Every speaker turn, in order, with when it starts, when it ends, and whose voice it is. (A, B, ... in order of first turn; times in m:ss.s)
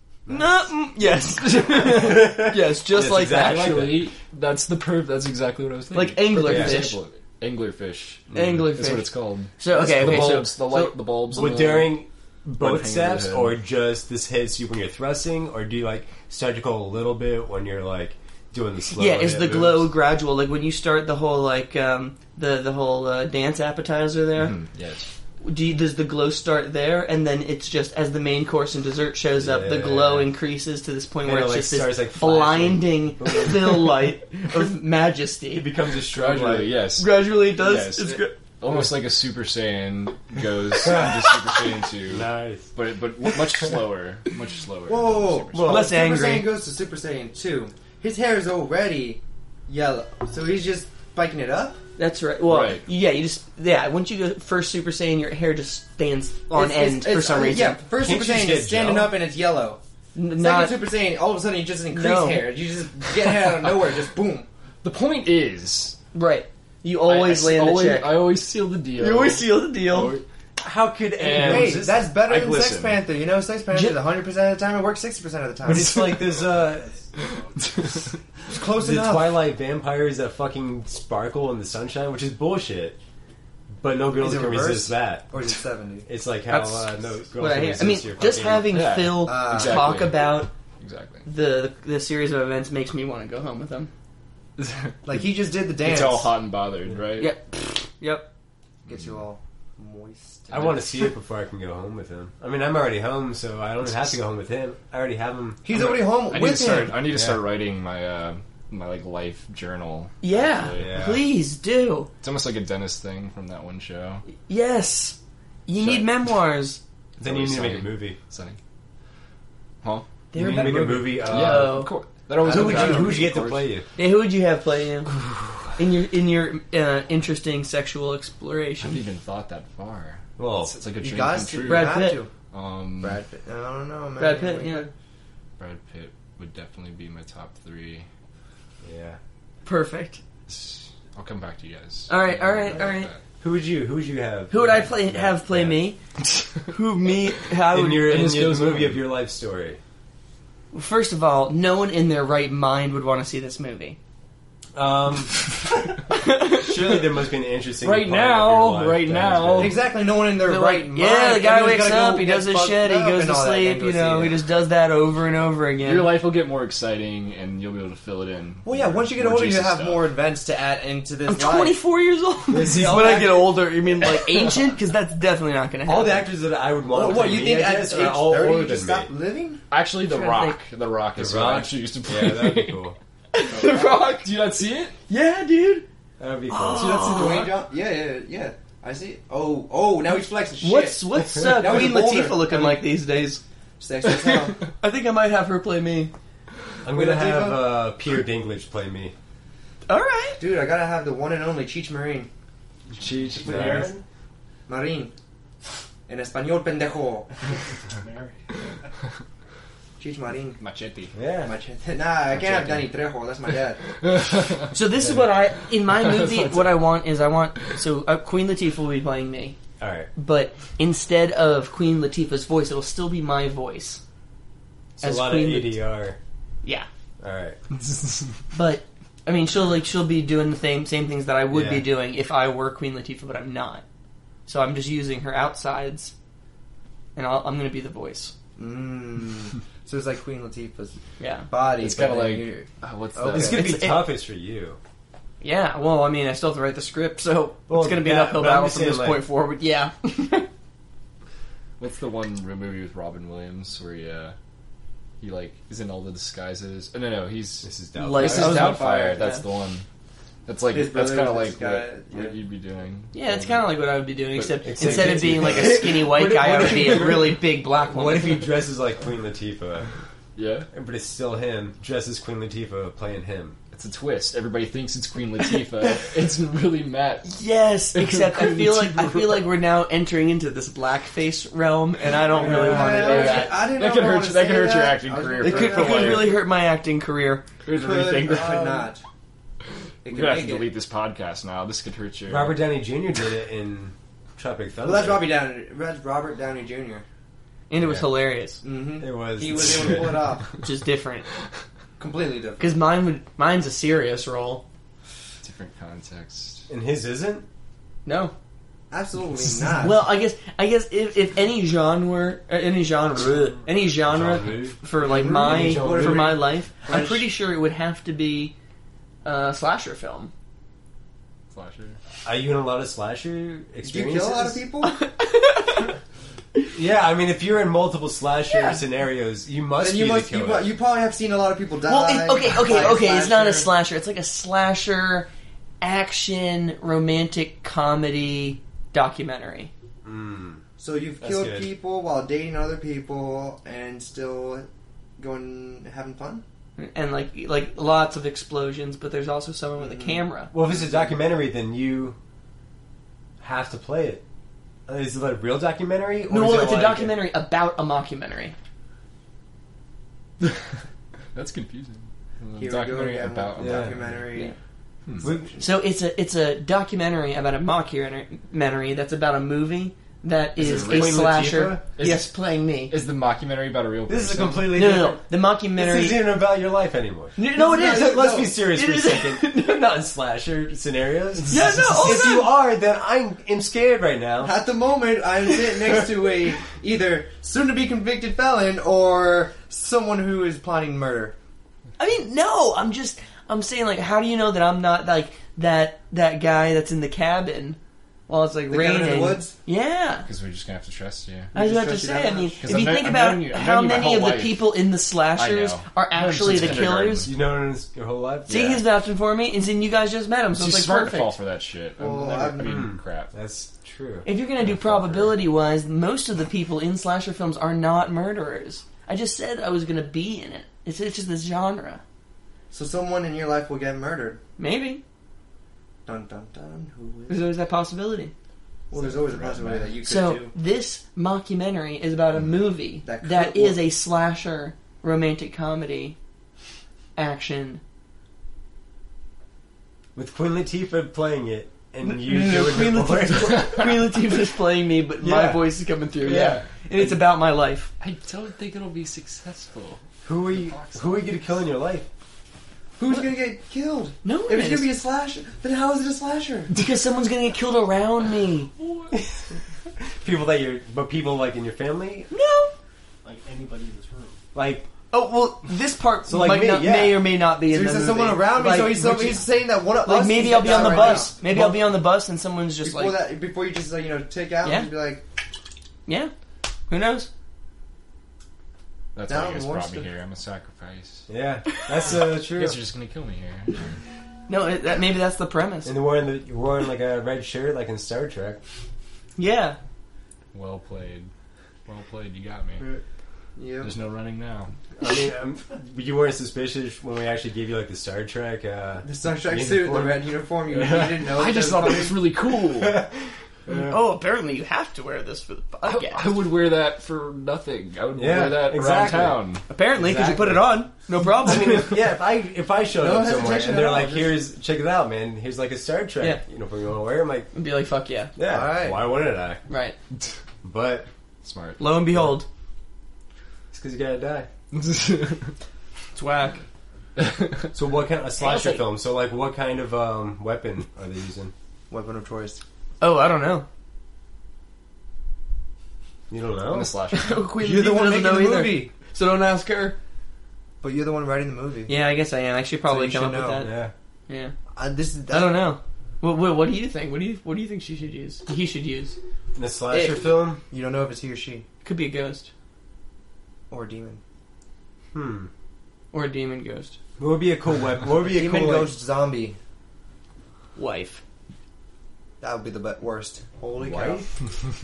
0:00.3-0:00.6 A
0:00.3-0:03.8 B
0:01.7-0:04.1 A
0:03.3-0:12.0 C
0:05.9-0:07.0 B
0:06.4-0:06.8 A
0:08.3-0:08.6 A
0:08.3-0:10.9 B
0:09.7-0:10.5 A
0:11.3-0:19.9 A
0:12.6-0:13.6 C
0:19.0-0:24.6 B
0:24.4-0:25.1 C
0:25.4-0:35.7 B
0:29.4-0:30.3 A
0:31.2-0:34.1 A
0:35.5-0:36.7 A
0:36.1-0:45.8 C
0:37.0-0:38.4 B
0:40.8-0:41.4 A
0:42.0-0:42.7 A
0:44.9-0:51.8 D
0:45.5-0:45.9 A
0:45.6-0:46.5 B
0:52.0-0:57.8 B
0:52.4-0:52.9 C
0:56.5-0:59.8 D
0:58.0-0:59.2 A
1:00.2-1:00.8 B
1:00.3-1:04.5 D
1:01.9-1:02.5 B
1:04.8-1:06.0 C
1:06.1-1:08.3 B
1:07.0-1:10.2 C
1:09.0-1:10.2 B
1:10.6-1:12.1 A
1:11.2-1:13.0 C
1:11.3-1:16.0 D
1:13.7-1:14.0 B
1:15.7-1:17.0 A
1:15.7-1:16.4 C
1:16.3-1:17.8 E
1:17.2-1:18.1 C
1:18.5-1:19.4 D
1:18.7-1:23.0 A
1:23.8-1:25.3 A
1:24.2-1:26.1 D
1:26.1-1:28.8 A
1:26.5-1:30.5 B
1:28.7-1:31.3 C
1:29.2-1:30.0 D
1:31.2-1:33.9 B
1:34.6-1:35.1 C
1:35.0-1:36.3 D
1:35.8-1:37.3 C
1:37.2-1:38.3 B
1:38.9-1:40.7 D
1:38.9-1:39.2 C
1:40.5-1:40.8 C
1:40.5-1:45.6 A
1:45.6-1:47.0 D
1:45.7-1:51.1 C
1:47.1-1:47.4 A
1:50.2-1:52.1 B
1:50.8-1:51.2 A
1:52.2-1:54.2 C
1:54.3-1:56.8 B
1:55.8-1:56.1 C
1:57.2-1:58.6 C
1:57.2-1:58.2 A
1:59.8-2:00.1 C
2:00.3-2:01.9 B
2:00.3-2:01.8 A
2:01.2-2:03.7 C
2:02.5-2:03.9 A
2:02.5-2:03.2 D
2:04.0-2:05.1 B
2:05.8-2:09.0 B
2:08.8-2:13.2 C
2:10.4-2:10.8 A
2:11.0-2:12.3 D
2:11.6-2:12.2 B
2:13.0-2:14.9 D
2:14.2-2:14.9 B
2:15.6-2:18.1 C
2:18.8-2:19.2 A
2:19.6-2:20.2 B
2:20.5-2:23.2 C
2:22.1-2:23.1 B
2:23.4-2:25.8 A
2:24.5-2:26.0 B
2:26.7-2:28.2 B
2:27.7-2:29.8 A
2:28.0-2:29.0 C
2:30.7-2:34.0 B
2:34.8-2:35.6 A
2:36.1-2:37.0 B
2:36.5-2:39.8 A
2:37.8-2:39.8 C
2:39.6-2:44.4 D
2:40.4-2:46.1 B
2:45.8-2:50.1 C
2:48.6-2:51.8 D
2:51.3-2:56.3 B
2:52.5-2:53.6 A
2:55.8-2:59.1 A
2:56.9-2:59.6 D
2:59.7-3:02.8 C
3:00.1-3:00.6 B
3:01.2-3:03.0 A
3:03.3-3:04.3 B
3:03.9-3:05.0 C
3:05.1-3:05.9 B
3:06.2-3:07.4 A
3:06.5-3:07.5 B
3:06.8-3:12.9 D
3:10.6-3:13.4 B
3:11.4-3:11.6 A
3:13.8-3:14.6 D
3:14.7-3:16.1 B
3:16.8-3:19.1 A
3:16.9-3:17.7 D
3:19.9-3:20.4 B
3:20.4-3:22.3 D
3:22.9-3:24.0 E
3:23.0-3:24.0 A
3:24.7-3:25.1 D
3:26.1-3:27.3 D
3:27.5-3:28.7 E
3:30.0-3:30.6 D
3:30.6-3:31.2 C
3:31.1-3:31.5 A
3:31.4-3:33.8 D
3:32.4-3:32.9 C
3:33.9-3:34.8 C
3:34.7-3:39.6 B
3:35.0-3:35.3 A
3:35.8-3:36.8 C
3:39.8-3:40.1 A
3:40.2-3:44.0 B
3:45.0-3:46.2 A
3:45.0-3:45.8 B
3:47.2-3:47.6 A
3:48.5-3:53.8 B
3:51.5-3:51.9 A
3:54.5-3:56.1 B
3:57.2-3:58.3 B
3:58.6-4:03.6 D
4:01.2-4:01.5 B
4:01.8-4:03.6 C
4:03.3-4:04.8 A
4:03.4-4:04.1 B
4:05.4-4:10.5 B
4:07.7-4:09.2 A
4:11.8-4:14.4 C
4:15.2-4:19.8 C
4:17.6-4:18.6 A
4:18.0-4:19.4 B
4:18.3-4:19.3 D
4:20.5-4:23.8 C
4:20.7-4:22.4 D
4:23.1-4:28.6 B
4:24.3-4:25.9 C
4:24.6-4:29.9 A
4:30.4-4:30.7 C
4:30.7-4:33.6 A
4:33.7-4:39.4 C
4:37.2-4:43.6 B
4:42.3-4:46.3 D
4:42.4-4:43.2 A
4:43.0-4:46.4 C
4:45.4-4:47.5 B
4:47.6-4:48.9 C
4:47.7-4:49.0 D
4:50.0-4:50.7 D
4:50.1-4:52.6 C
4:52.3-4:55.3 A
4:54.8-4:57.0 D
4:57.7-4:58.6 B
4:57.8-4:58.1 A
4:58.6-5:00.5 D
4:59.0-5:00.2 A
5:00.6-5:01.3 B
5:02.0-5:02.7 D
5:02.6-5:04.6 B
5:05.4-5:06.7 C
5:06.7-5:07.5 A
5:08.0-5:08.3 B
5:08.9-5:10.0 D
5:09.8-5:18.5 B
5:14.0-5:16.4 A
5:15.0-5:17.3 D
5:19.2-5:20.3 B
5:21.5-5:22.0 C
5:22.2-5:24.6 A
5:23.8-5:25.0 D
5:24.8-5:25.9 B
5:26.7-5:30.7 A
5:28.5-5:28.8 B
5:29.8-5:33.7 D
5:31.9-5:35.3 B
5:35.8-5:39.7 B
5:40.0-5:40.6 A
5:40.8-5:46.4 D
5:41.2-5:41.7 A
5:46.8-5:50.5 B
5:49.8-5:51.1 D
5:50.5-5:52.2 A
5:53.4-5:54.2 A
5:54.9-5:57.2 A
5:56.3-5:58.6 B
6:00.4-6:00.8 C
6:01.3-6:04.3 C
6:02.6-6:04.5 D
6:03.6-6:04.0 A
6:05.2-6:05.6 D
6:05.2-6:05.6 A
6:05.6-6:13.0 B
6:10.6-6:14.8 C
6:10.6-6:11.8 A
6:14.1-6:24.6 A
6:14.7-6:16.2 B
6:17.4-6:19.9 B
6:17.5-6:18.5 D
6:21.5-6:22.5 B
6:24.4-6:31.4 D
6:32.0-6:40.3 B
6:38.7-6:39.6 D
6:40.3-6:41.5 C
6:41.5-6:42.8 D
6:41.5-6:47.3 B
6:42.6-6:47.3 C
6:46.5-6:48.6 A
6:48.5-6:51.4 B
6:48.5-6:48.8 C
6:50.5-6:53.3 C
6:52.0-6:52.8 D
6:52.6-6:54.3 A
6:54.2-7:02.0 B
6:54.6-6:55.3 C
7:02.7-7:04.4 D
7:04.6-7:05.0 B
7:06.1-7:07.4 D
7:07.3-7:08.3 B
7:08.9-7:10.5 D
7:09.0-7:09.7 A
7:10.0-7:16.2 B
7:13.0-7:13.8 D
7:17.2-7:17.8 B
7:20.2-7:23.9 A
7:22.0-7:27.9 B
7:25.2-7:25.6 A
7:26.2-7:27.1 C
7:28.0-7:31.5 C
7:30.2-7:32.1 A
7:33.0-7:36.7 D
7:34.2-7:34.9 B
7:36.8-7:38.7 B
7:38.8-7:39.1 C
7:39.1-7:39.5 A
7:40.0-7:42.3 A
7:42.3-7:42.7 B
7:43.2-7:44.4 E
7:44.5-7:44.9 A
7:45.1-7:49.4 B
7:46.3-7:47.3 A
7:47.7-7:51.7 D
7:50.0-7:53.2 B
7:50.4-7:51.8 A
7:52.8-7:55.2 D
7:54.6-7:54.9 B
7:56.1-7:56.3 B
7:56.9-7:57.3 B
7:59.2-8:01.3 C
7:59.3-8:00.1 D
8:01.3-8:02.8 A
8:02.5-8:04.0 C
8:04.5-8:06.0 B
8:05.8-8:08.6 A
8:09.4-8:09.8 B
8:10.5-8:11.3 C
8:11.9-8:12.8 C
8:13.6-8:13.9 D
8:13.8-8:14.7 C
8:15.0-8:20.2 A
8:19.0-8:22.2 D
8:20.7-8:23.1 C
8:22.6-8:24.0 A
8:23.7-8:26.3 B
8:25.8-8:29.6 C
8:28.2-8:37.5 A
8:29.7-8:32.0 B
8:33.0-8:34.4 D
8:37.5-8:38.3 B
8:38.4-8:39.6 A
8:38.5-8:39.0 D
8:39.7-8:40.0 B
8:40.6-8:41.1 A
8:41.4-8:41.9 C
8:41.8-8:42.5 B
8:42.1-8:42.4 A
8:43.7-8:44.5 A
8:44.7-8:45.6 C
8:46.1-8:46.6 B
8:47.2-8:47.7 C
8:47.7-8:51.5 A
8:48.4-8:48.8 B
8:51.9-8:52.6 D
8:53.0-8:53.7 B
8:56.3-8:56.9 A
8:56.7-8:57.5 C
8:57.1-9:00.0 B
8:57.6-8:58.9 D
9:00.8-9:01.9 D
9:01.9-9:03.7 B
9:02.8-9:03.7 D
9:03.6-9:03.9 A
9:04.3-9:04.6 B
9:04.7-9:05.8 D
9:05.3-9:09.2 B
9:09.6-9:10.6 A
9:09.9-9:11.7 D
9:11.8-9:12.5 B
9:13.7-9:14.2 D
9:15.1-9:15.5 A
9:16.1-9:17.0 B
9:17.2-9:18.9 A
9:18.3-9:19.6 D
9:20.8-9:21.2 B
9:22.4-9:24.3 D
9:23.8-9:24.3 A